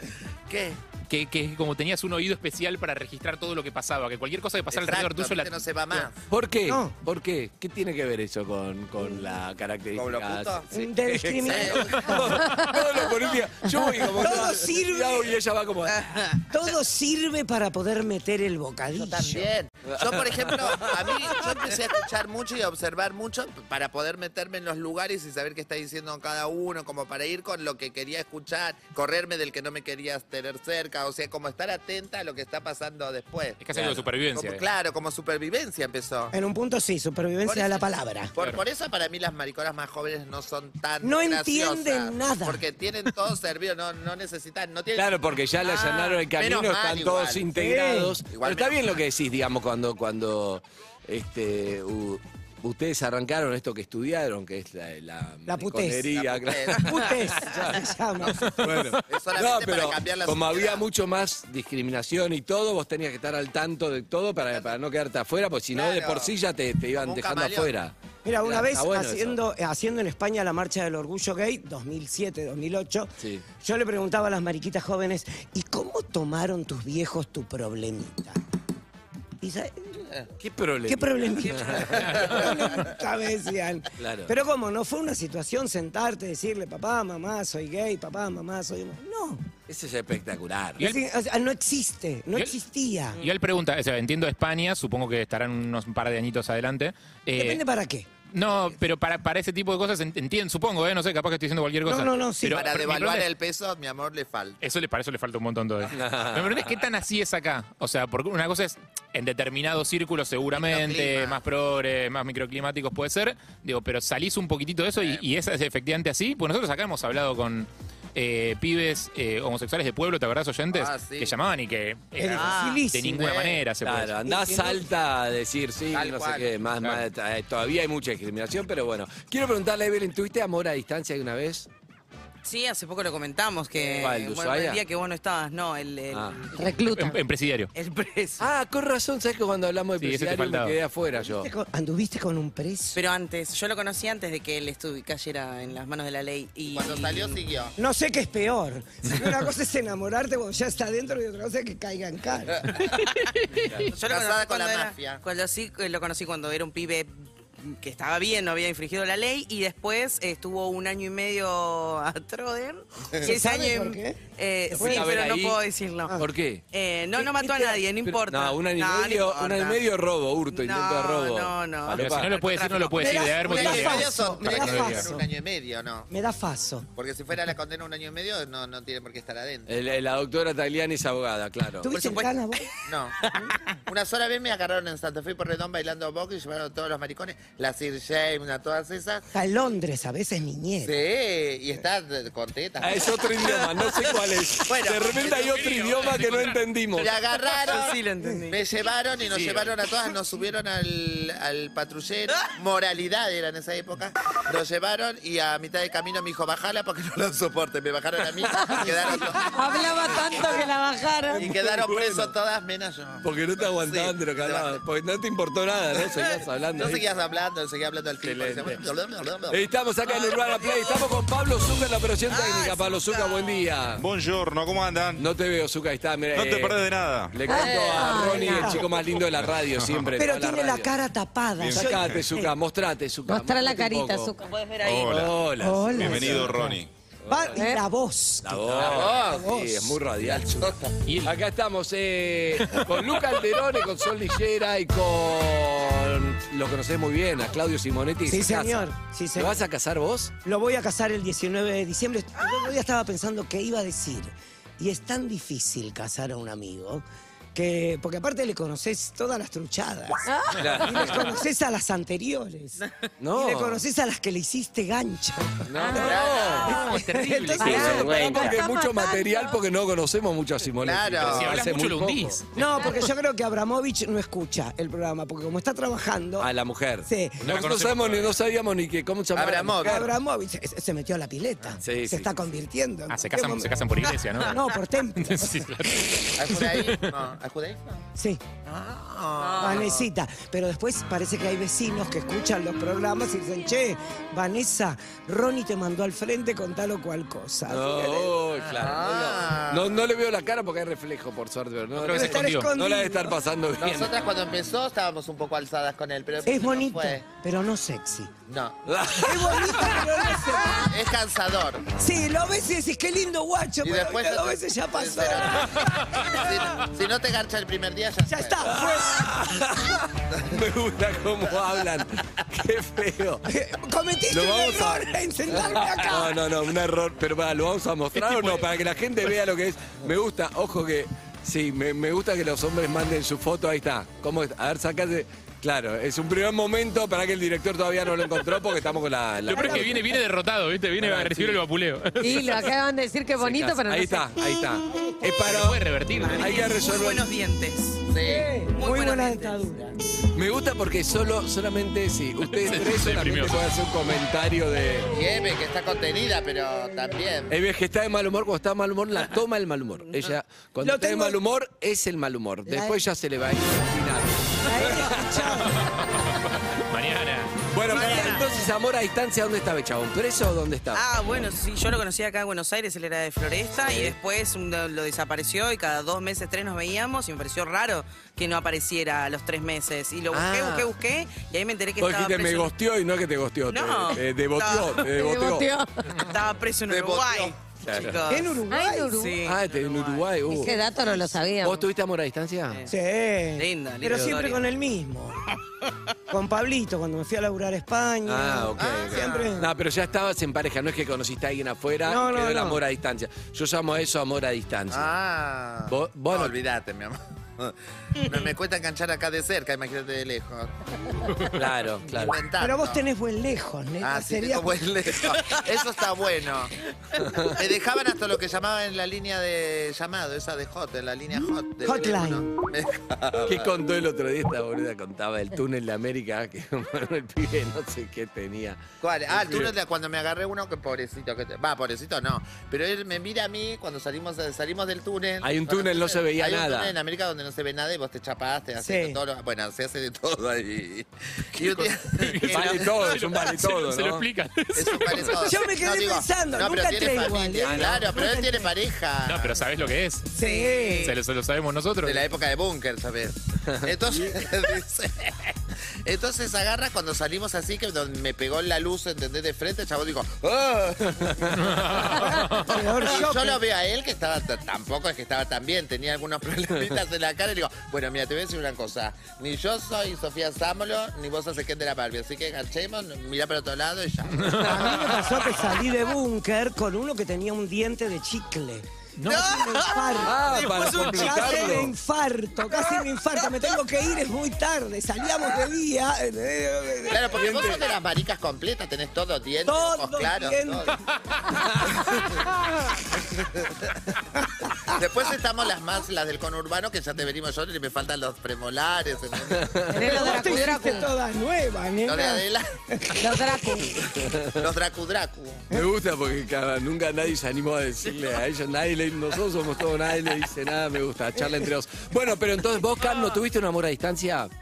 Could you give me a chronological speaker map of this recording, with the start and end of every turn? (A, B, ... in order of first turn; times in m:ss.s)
0:00.5-0:00.8 A
0:01.1-0:06.1 B
0:04.7-0:06.2 A
0:06.3-0:16.1 C
0:06.7-0:06.9 D
0:09.9-0:10.7 A
0:10.7-0:12.6 D
0:11.4-0:12.4 A
0:13.9-0:15.3 D
0:15.9-0:16.4 E
0:16.5-0:19.5 D
0:18.9-0:36.4 A
0:19.9-0:21.7 C
0:33.6-0:34.6 B
0:36.3-0:38.4 D
0:37.4-0:45.1 A
0:41.0-0:42.6 D
0:45.0-0:57.9 C
0:45.6-0:46.3 E
0:46.3-0:47.5 A
0:47.6-0:48.2 D
0:48.3-0:48.9 A
0:55.5-0:56.1 D
0:56.1-0:57.2 A
0:56.8-0:58.7 D
0:58.6-1:09.4 C
0:59.1-1:00.8 A
1:05.7-1:06.3 A
1:07.0-1:07.7 A
1:08.2-1:18.4 D
1:19.4-1:19.9 D
1:20.4-1:22.2 C
1:20.9-1:29.5 D
1:21.4-1:22.0 E
1:22.1-1:22.5 A
1:24.0-1:24.3 C
1:29.7-1:30.9 C
1:30.8-1:33.2 D
1:33.2-1:37.6 B
1:37.4-1:38.1 D
1:38.3-1:43.3 B
1:41.8-1:42.7 D
1:42.5-1:44.6 A
1:44.6-2:04.2 B
1:45.9-1:46.8 C
1:50.5-1:51.4 A
1:55.0-1:55.2 A
2:00.7-2:01.4 A
2:02.2-2:03.3 D
2:02.3-2:02.9 E
2:03.2-2:03.6 A
2:03.8-2:11.7 C
2:04.2-2:04.8 D
2:05.9-2:06.7 A
2:12.4-2:16.6 E
2:14.0-2:14.8 C
2:16.1-2:16.4 C
2:16.6-2:17.2 F
2:16.9-2:17.7 B
2:17.8-2:18.4 E
2:18.4-2:21.5 C
2:20.0-2:20.8 B
2:21.2-2:23.0 D
2:22.9-2:27.4 E
2:26.7-2:27.7 A
2:27.8-2:32.7 D
2:33.5-2:33.8 C
2:33.8-2:37.1 E
2:34.0-2:35.2 A
2:37.6-2:46.2 E
2:43.2-2:44.2 D
2:44.7-2:45.1 D
2:44.7-2:45.6 C
2:46.2-2:46.6 C
2:46.7-2:49.8 E
2:47.2-2:47.8 D
2:48.0-2:52.4 C
2:50.5-2:53.3 E
2:52.0-2:55.0 B
2:52.9-2:55.3 D
2:53.4-2:56.1 A
2:56.1-2:56.9 D
2:57.0-2:59.8 A
2:59.7-3:01.9 C
3:01.8-3:02.7 D
3:01.9-3:02.4 E
3:02.9-3:03.2 A
3:03.9-3:09.2 A
3:09.3-3:11.0 D
3:10.8-3:13.6 A
3:12.8-3:17.2 C
3:14.7-3:15.9 A
3:15.3-3:16.6 B
3:16.9-3:18.0 A
3:17.5-3:18.6 E
3:18.5-3:30.2 A
3:19.3-3:19.7 C
3:28.4-3:29.2 C
3:29.4-3:31.4 F
3:31.3-3:32.3 C
3:31.3-3:34.8 A
3:33.2-3:37.0 C
3:36.8-3:39.6 A
3:38.2-3:38.8 C
3:39.5-3:44.1 C
3:40.1-3:41.1 E
3:42.3-3:43.6 E
3:44.0-3:45.2 G
3:45.2-3:50.9 C
3:46.3-3:47.4 G
3:47.5-3:48.8 F
3:47.5-3:48.5 A
3:48.3-3:48.8 D
3:49.2-3:50.1 G
3:50.2-3:52.5 D
3:51.6-3:52.2 G
3:51.7-3:54.3 C
3:53.3-3:54.5 F
3:54.4-3:55.2 E
3:54.8-3:56.9 G
3:54.9-3:56.7 C
3:55.6-3:56.8 D
3:57.3-4:00.0 D
3:57.3-3:57.6 C
3:57.6-3:57.8 F
3:58.4-4:10.3 C
3:58.7-3:59.6 A
4:00.2-4:01.0 A
4:01.1-4:01.3 B
4:08.3-4:09.6 D
4:10.4-4:22.8 D
4:20.3-4:20.9 F
4:20.6-4:21.2 C
4:23.2-4:23.8 C
4:23.3-4:28.3 D
4:25.7-4:26.8 C
4:26.0-4:26.8 A
4:26.7-4:27.9 B
4:27.6-4:29.6 F
4:27.6-4:32.4 C
4:30.8-4:31.7 A
4:31.2-4:32.5 B
4:32.5-4:36.5 D
4:36.4-4:40.1 C
4:37.0-4:37.6 D
4:37.4-4:38.3 B
4:39.4-4:40.1 A
4:39.8-4:45.7 D
4:41.8-4:42.3 C
4:43.1-4:44.6 B
4:45.2-4:47.1 B
4:46.4-4:48.0 A
4:48.2-4:48.4 D
4:48.7-4:50.1 A
4:49.4-4:49.9 E
4:49.6-4:58.4 D
4:57.7-5:04.1 C
4:58.7-5:00.0 A
5:02.0-5:02.7 B
5:02.1-5:03.4 D
5:03.8-5:07.3 A
5:06.4-5:08.3 D
5:08.5-5:08.8 A
5:08.9-5:10.0 C
5:09.2-5:11.0 D
5:10.7-5:11.9 A
5:11.9-5:15.8 D
5:13.8-5:18.9 A
5:18.3-5:19.4 D
5:18.6-5:23.5 C
5:23.5-5:26.4 D
5:24.3-5:40.0 C
5:28.2-5:28.7 B
5:39.5-5:42.7 B
5:39.5-5:40.2 D
5:41.0-5:41.6 C
5:42.2-5:44.4 F
5:43.4-5:45.8 C
5:45.4-5:46.6 B
5:46.2-5:48.0 E
5:46.4-5:47.3 C
5:48.1-5:48.5 A
5:48.2-5:49.9 D
5:48.8-5:49.8 E
5:50.3-5:55.1 C
5:52.5-5:53.6 B
5:55.1-5:57.5 A
5:57.5-6:05.5 C
6:00.8-6:01.4 D
6:02.7-6:03.0 D
6:04.6-6:05.9 D
6:05.8-6:07.6 B
6:07.7-6:11.1 C
6:07.9-6:08.5 E
6:08.0-6:08.3 D
6:10.9-6:22.7 E
6:13.8-6:14.2 C
6:20.3-6:20.9 C
6:22.0-6:25.7 C
6:23.7-6:25.0 E
6:25.0-6:26.3 F
6:26.2-6:30.5 E
6:26.9-6:27.5 A
6:27.8-6:28.3 C
6:28.3-6:29.2 D
6:28.7-6:29.4 F
6:29.4-6:30.7 C
6:30.5-6:31.9 F
6:31.6-6:32.8 C
6:32.9-6:35.4 D
6:33.6-6:34.6 E
6:34.1-6:34.3 C
6:36.3-6:39.7 D
6:38.2-6:45.1 C
6:38.8-6:39.6 A
6:42.1-6:42.8 D
6:44.9-6:51.5 A
6:45.9-6:46.6 C
6:51.5-6:52.4 C
6:52.1-6:53.0 A
6:52.6-6:54.8 D
6:54.0-6:56.7 A
6:57.2-6:57.6 C
6:57.4-7:03.7 A
7:01.8-7:02.6 D
7:03.4-7:09.8 C
7:09.0-7:22.9 A
7:15.4-7:17.0 C
7:18.8-7:19.2 D
7:22.1-7:25.5 B
7:22.5-7:24.3 C
7:24.8-7:29.7 A
7:25.4-7:28.7 D
7:27.6-7:28.1 C
7:29.2-7:30.3 B
7:30.3-7:31.2 D
7:30.4-7:31.2 E
7:31.0-7:32.3 B
7:32.0-7:55.3 A
7:33.7-7:34.2 C
7:41.1-7:41.5 C
7:41.5-7:42.9 B
7:42.1-7:43.6 D
7:54.4-7:54.9 B
7:54.5-8:07.4 D
7:59.2-7:59.6 B
7:59.3-8:01.8 E
8:00.2-8:01.9 C
8:02.7-8:03.8 E
8:07.1-8:11.0 A
8:07.4-8:07.8 C
8:09.6-8:10.9 D
8:14.9-8:19.8 A
8:19.5-8:20.3 C
8:19.9-8:21.1 F
8:20.0-8:24.0 D
8:22.0-8:22.7 A
8:23.2-8:23.9 F
8:24.2-8:24.6 C
8:24.5-8:25.7 A
8:25.7-8:34.5 C
8:33.0-8:33.4 E